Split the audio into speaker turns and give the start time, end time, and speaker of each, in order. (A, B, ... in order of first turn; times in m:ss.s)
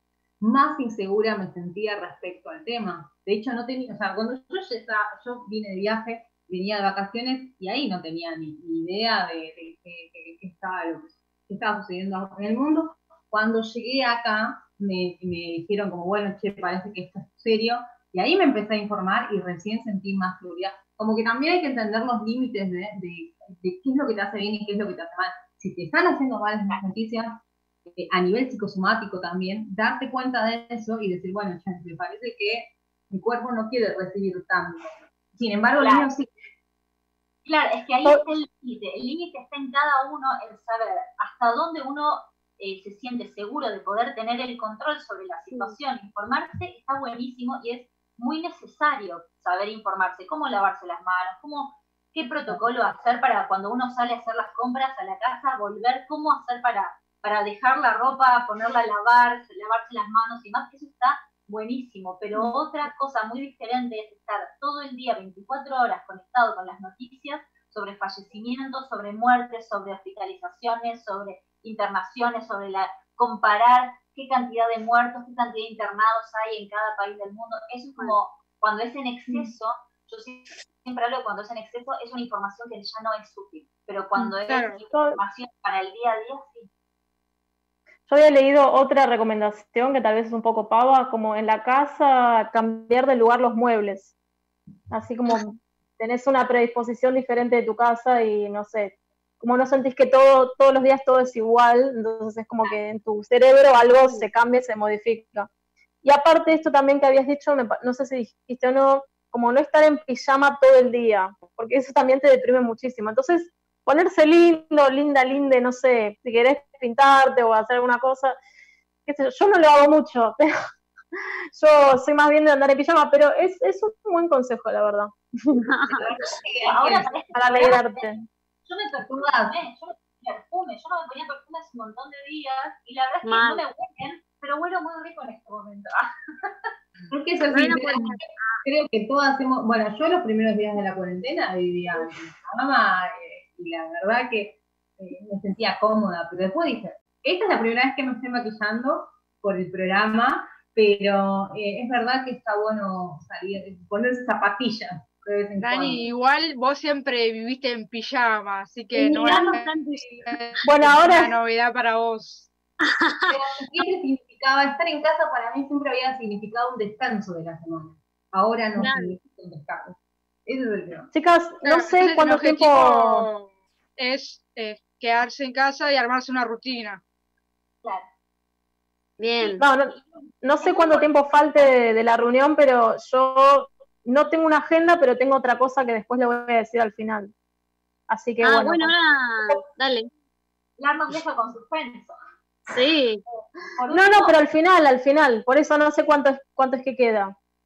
0:00.4-0:36.3 A
0:35.8-0:36.1 B
0:37.4-1:26.7 B
1:24.5-1:24.8 C
1:24.9-1:25.2 D
1:28.1-1:34.1 D
1:34.9-1:45.5 D
1:46.0-1:58.4 D
1:59.0-2:00.5 D
2:01.6-2:05.7 D
2:05.6-2:06.0 E
2:05.9-2:07.1 A
2:06.0-2:08.1 B
2:07.3-2:08.2 D
2:08.6-2:16.1 B
2:09.0-2:09.6 A
2:13.2-2:13.6 E
2:17.1-2:36.1 A
2:17.5-2:18.6 E
2:35.6-2:42.5 C
2:38.9-2:40.2 A
2:39.1-2:40.0 E
2:40.6-2:41.4 D
2:42.8-2:43.4 E
2:43.3-2:51.1 A
2:48.8-2:49.2 E
2:51.1-2:53.2 D
2:51.6-2:53.4 C
2:54.0-2:57.0 C
2:59.2-2:59.6 E
2:59.4-3:07.3 D
3:00.6-3:01.1 B
3:08.1-3:08.9 D
3:08.4-3:10.1 E
3:10.8-3:12.1 B
3:12.7-3:13.2 E
3:13.8-3:14.4 B
3:13.9-3:17.3 D